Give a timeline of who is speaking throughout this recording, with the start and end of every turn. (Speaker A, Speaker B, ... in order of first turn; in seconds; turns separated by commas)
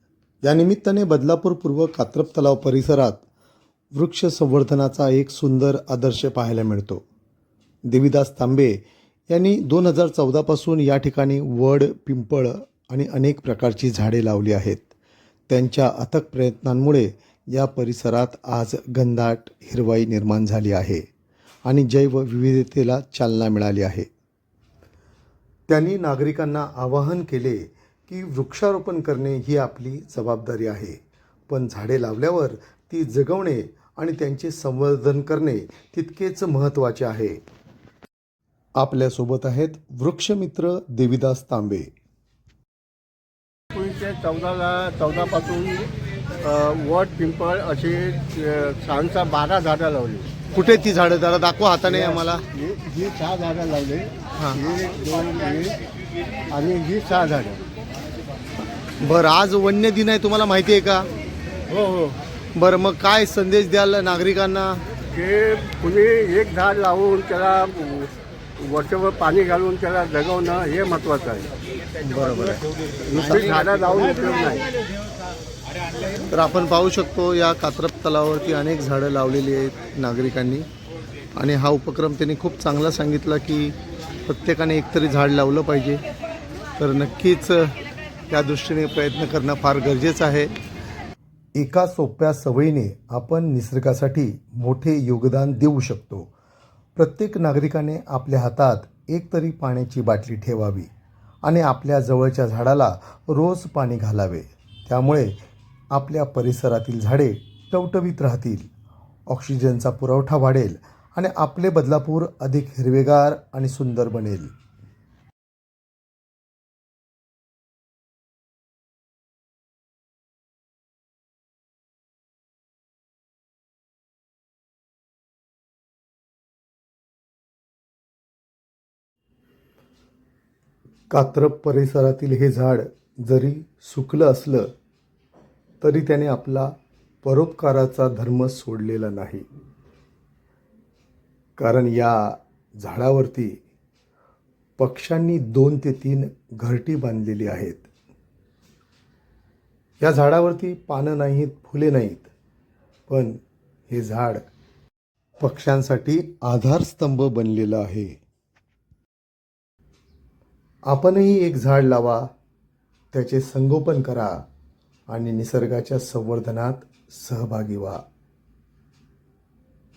Speaker A: 0.4-3.2, Speaker A: 3.9-7.0, Speaker A: 7.9-14.9, Speaker A: 15.5-21.0, Speaker A: 21.6-24.1, Speaker A: 25.7-31.0, Speaker A: 31.5-37.4, Speaker A: 38.8-41.9, Speaker B: 43.7-45.9, Speaker B: 46.4-50.3, Speaker A: 50.5-52.4, Speaker B: 51.9-55.8, Speaker A: 54.4-54.6, Speaker B: 56.5-57.6, Speaker A: 59.0-61.1, Speaker B: 61.7-62.1, Speaker A: 62.5-64.8, Speaker B: 65.1-71.5, Speaker A: 72.0-72.6, Speaker B: 73.0-74.7, Speaker A: 73.1-74.0, Speaker A: 76.2-80.7, Speaker A: 81.3-86.0, Speaker A: 86.8-87.7, Speaker A: 88.3-90.5, Speaker A: 91.5-96.3, Speaker A: 97.0-100.9, Speaker A: 101.4-105.3, Speaker A: 105.9-108.7, Speaker A: 109.3-114.5, Speaker A: 131.1-134.7, Speaker A: 135.8-139.4, Speaker A: 141.6-143.6, Speaker A: 144.8-147.9, Speaker A: 150.0-152.3, Speaker A: 153.1-154.4, Speaker A: 155.4-158.2, Speaker A: 160.9-162.3, Speaker A: 163.1-164.3, Speaker A: 165.1-168.0